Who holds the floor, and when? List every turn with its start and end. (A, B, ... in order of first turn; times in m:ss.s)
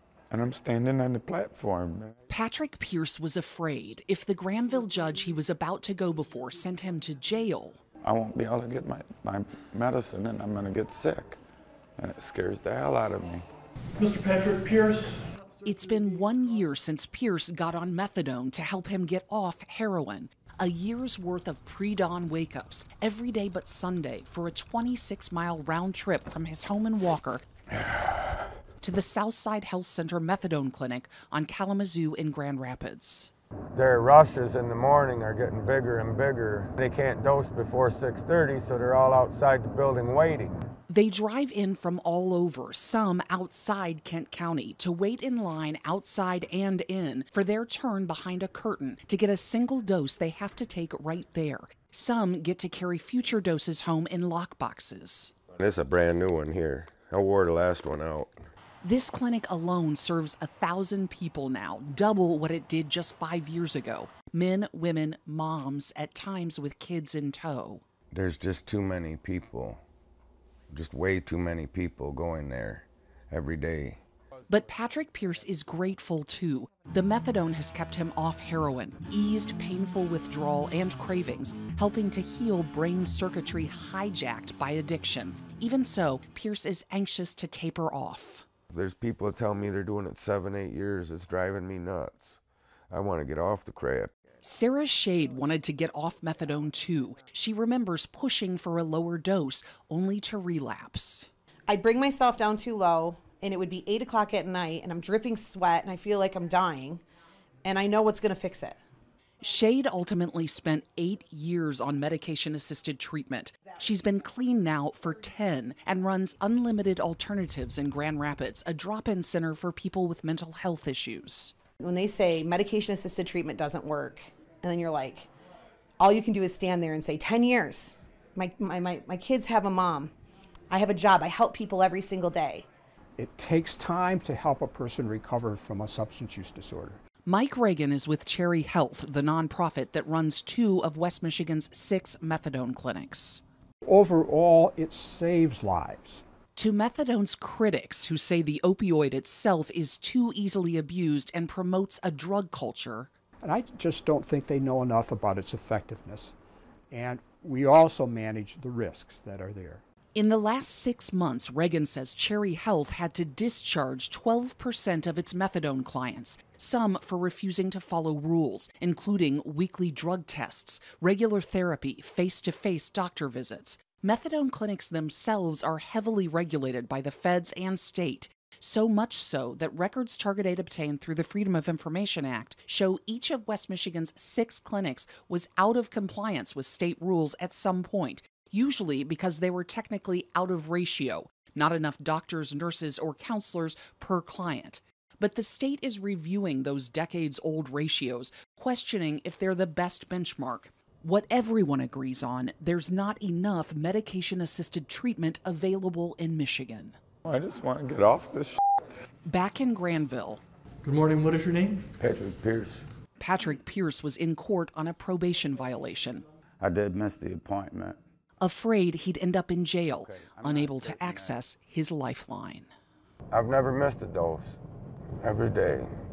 0:00.3-0:02.1 A
0:02.3-0:07.8 B
0:08.0-0:11.4 A
0:12.0-0:13.4 A
0:14.0-0:15.2 C
0:15.6-0:27.4 B
0:28.8-0:33.3 B
0:33.8-0:40.6 D
0:40.9-0:55.3 B
0:55.5-0:58.4 D
0:58.8-1:07.8 B
1:08.1-1:09.8 D
1:10.7-1:14.0 D
1:14.5-1:28.4 B
1:28.7-1:34.1 D
1:34.4-1:41.3 B
1:41.7-1:47.0 E
1:47.6-1:48.8 E
1:49.4-2:01.5 B
2:01.8-2:05.3 E
2:06.0-2:10.1 E
2:10.7-2:12.6 E
2:13.2-2:17.0 F
2:17.2-2:23.4 B
2:23.8-2:26.2 F
2:26.6-2:33.1 B
2:33.4-2:36.3 F
2:36.9-2:39.8 F
2:40.1-3:27.0 B
3:27.2-3:28.6 A
3:29.2-3:30.4 B
3:30.8-3:31.9 C
3:32.0-3:32.8 A
3:32.0-3:32.8 D
3:33.2-3:36.2 B
3:36.6-3:38.0 A
3:38.4-3:42.7 B
3:40.0-3:40.6 D
3:40.2-3:41.3 A
3:43.3-3:44.6 D
3:45.2-3:45.9 D